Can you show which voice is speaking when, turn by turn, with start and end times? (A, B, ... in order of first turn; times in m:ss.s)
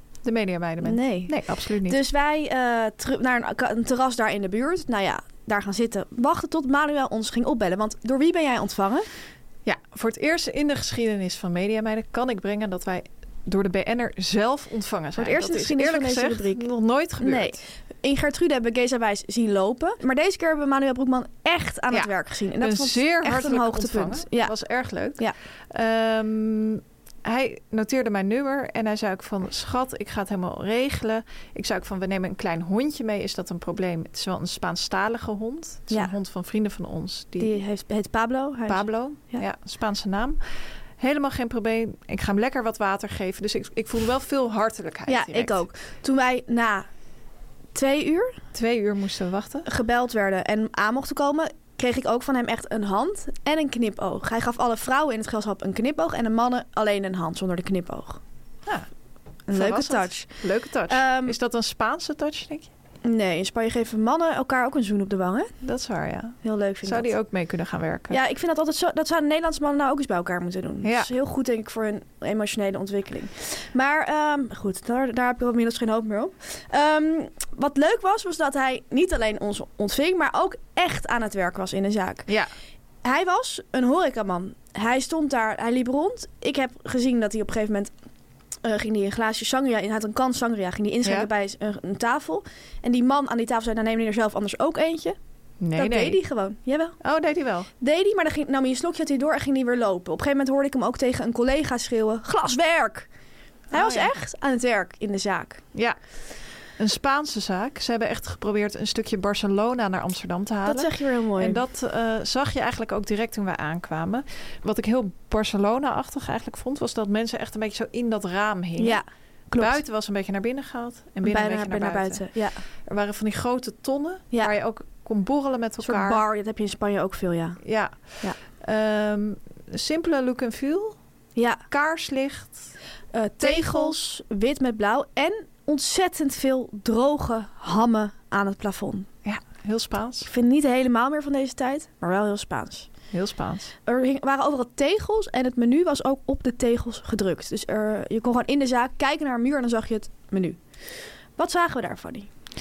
0:00.2-0:02.0 A
0:00.8-0:09.1 B
0:09.6-0:17.6 A
0:15.1-0:16.7 B
0:17.2-0:24.5 B
0:21.9-0:37.5 A
0:37.4-0:39.4 B
0:38.7-0:40.4 A
0:41.0-0:45.6 A
0:45.1-0:46.9 B
0:47.7-0:48.4 B
0:48.5-0:49.6 A
0:49.6-0:58.2 B
0:59.5-1:01.4 B
0:59.5-1:02.7 A
1:03.0-1:05.5 B
1:05.6-1:08.2 A
1:06.4-1:07.1 B
1:08.1-1:22.3 B
1:10.8-1:11.1 A
1:23.0-1:27.9 B
1:28.6-1:35.2 B
1:31.0-1:31.3 A
1:35.6-1:36.2 A
1:35.7-1:37.0 B
1:37.0-1:37.7 A
1:37.8-1:43.1 B
1:43.7-1:44.1 A
1:43.7-1:45.6 B
1:46.8-1:59.0 A
1:50.6-1:51.6 B
1:58.8-1:59.8 B
1:59.5-2:02.3 A
2:01.2-2:02.6 B
2:02.8-2:06.2 A
2:05.8-2:07.6 B
2:07.6-2:11.0 A
2:11.4-2:11.6 B
2:11.7-2:12.7 A
2:13.1-2:19.1 B
2:13.4-2:14.0 A
2:19.2-2:20.3 A
2:20.2-2:22.9 B
2:23.1-2:23.7 A
2:23.8-2:32.3 B